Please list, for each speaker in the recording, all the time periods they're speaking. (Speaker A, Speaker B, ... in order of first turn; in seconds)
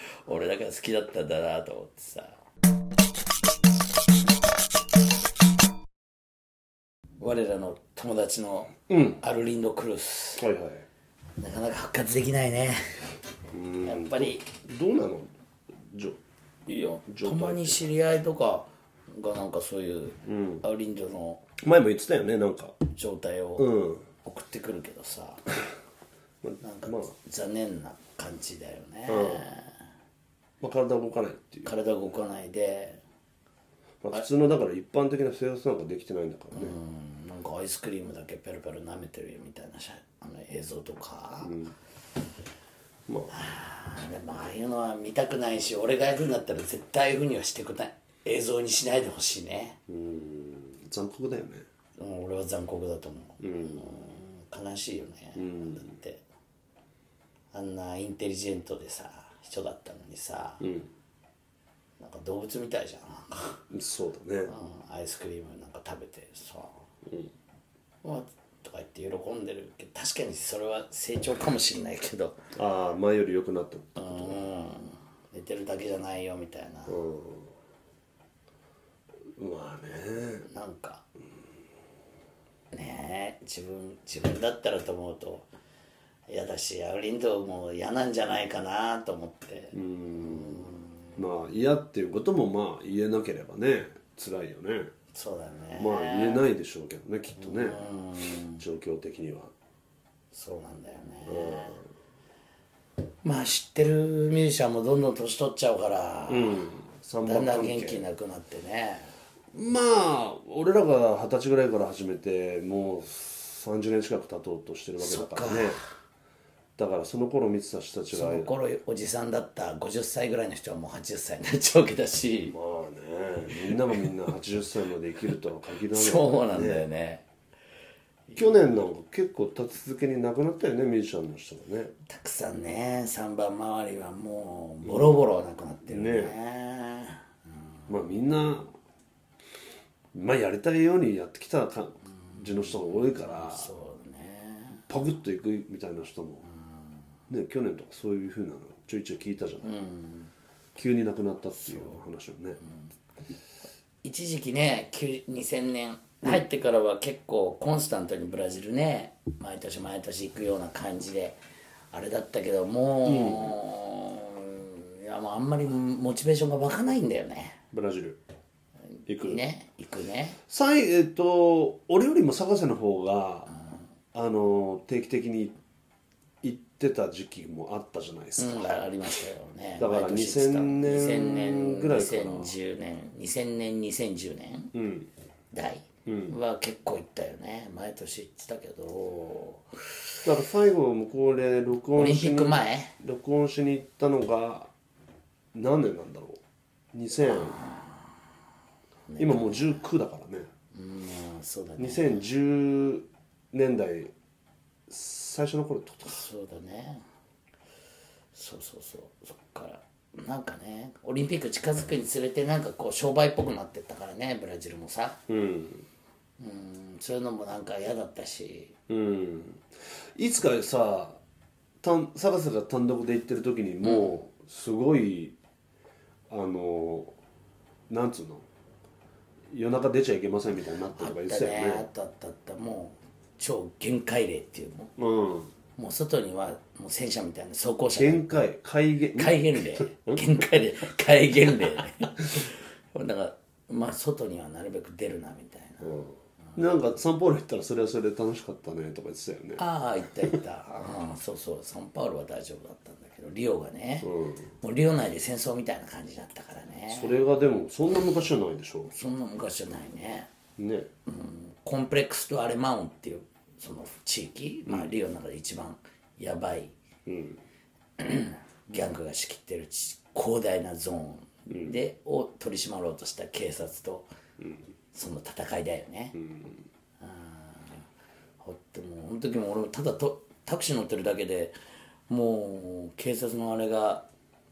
Speaker A: 0.2-2.4, 7.2-10.4, 11.4-13.1, 13.8-14.4, 16.7-21.4, 22.9-23.7, 24.2-25.4, 26.6-29.8, 31.6-33.0, 36.5-41.6, 43.3-49.8, 52.0-56.2, 57.5-60.7, 62.0-63.6, 64.5-66.8, 68.0-72.4, 74.0-77.0, 80.5-81.0, 82.7-85.5, 86.3-91.2, 95.1-96.4, 97.4-98.6, 100.3-101.8, 103.2-106.6, 107.2-109.1, 115.0-115.8, 118.1-122.5, 125.9-127.2, 132.1-137.3, 142.3-144.8, 146.5-146.9, 149.6-150.3, 151.6-152.0, 154.0-161.4, 161.9-167.6, 169.2-170.4, 178.4-184.7, 185.5-189.7, 192.0-192.9, 197.2-198.1, 199.1-199.8, 200.7-202.2, 206.1-207.1, 208.3-215.2, 216.4-218.8, 223.8-224.1, 231.0-234.9, 235.8-238.4, 239.2-246.0, 249.6-257.2, 258.9-260.3, 261.1-266.8, 268.0-274.1, 274.9-276.2, 277.0-277.8, 278.4-281.6, 282.1-284.1
Speaker B: 8.9-9.2, 10.4-10.9, 13.5-15.3, 15.8-16.2, 17.1-17.9, 20.2-20.6, 21.6-22.8, 23.6-24.1, 26.4-27.1, 29.1-29.5, 30.6-31.7, 34.0-36.8, 41.4-41.7, 43.1-43.3, 49.9-51.6, 53.4-53.9, 55.4-55.9, 60.6-60.9, 63.7-64.5, 67.0-67.3, 72.5-74.4, 76.9-77.5, 79.4-80.5, 89.7-94.9, 95.8-97.8, 98.6-99.5, 101.3-101.8, 106.3-108.1, 109.5-115.8, 116.8-118.5, 122.5-126.9, 128.4-131.9, 134.8-135.2, 135.9-136.4, 137.9-138.7, 140.1-143.7, 144.9-146.4, 147.3-149.7, 150.8-152.6, 163.1-163.6, 167.7-168.2, 169.1-169.4, 170.5-173.5, 174.1-175.6, 176.4-178.8, 179.8-182.5, 184.7-185.1, 186.1-186.4, 190.2-194.7, 195.5-196.4, 196.9-197.6, 199.2-200.5, 201.8-204.1, 204.9-206.2, 215.3-215.9, 218.9-221.2, 221.8-225.4, 226.3-227.1, 227.9-228.5, 229.5-231.9, 235.0-235.5, 237.9-240.4, 245.8-249.6, 254.0-254.5, 256.9-258.9, 260.6-260.9, 267.1-267.4, 271.5-271.8, 276.2-276.6